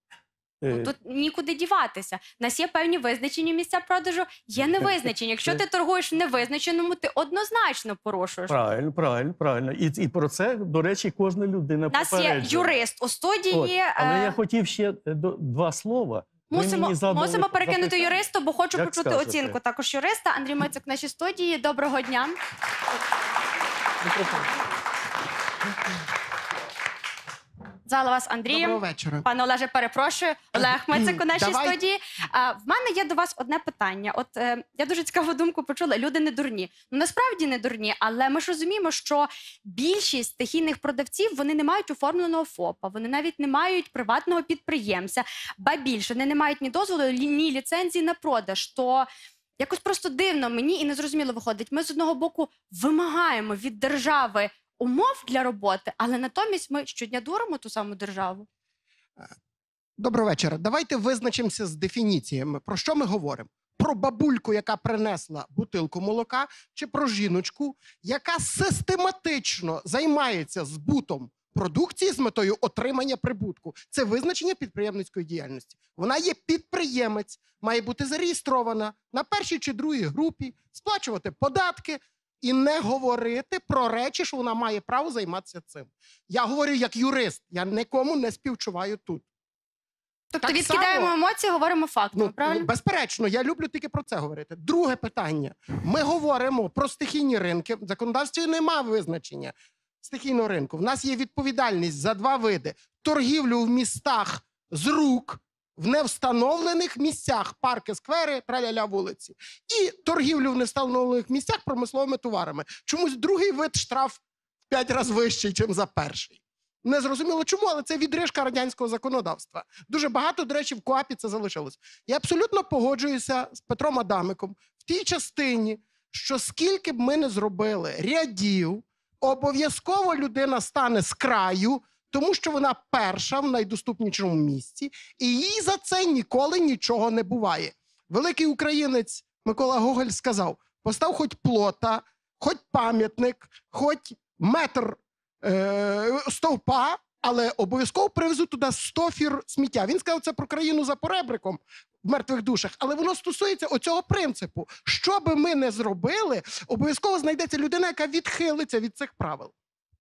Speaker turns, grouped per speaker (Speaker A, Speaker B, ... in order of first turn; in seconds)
Speaker A: 0.6-0.9, 4.6-5.6, 8.5-12.8, 13.5-19.6
Speaker B: 0.7-8.6, 11.9-14.3, 16.5-22.4, 27.9-49.1, 49.6-58.5, 90.3-92.7
Speaker C: 28.5-29.2, 30.6-31.8, 60.0-89.2, 90.4-91.1, 92.1-159.5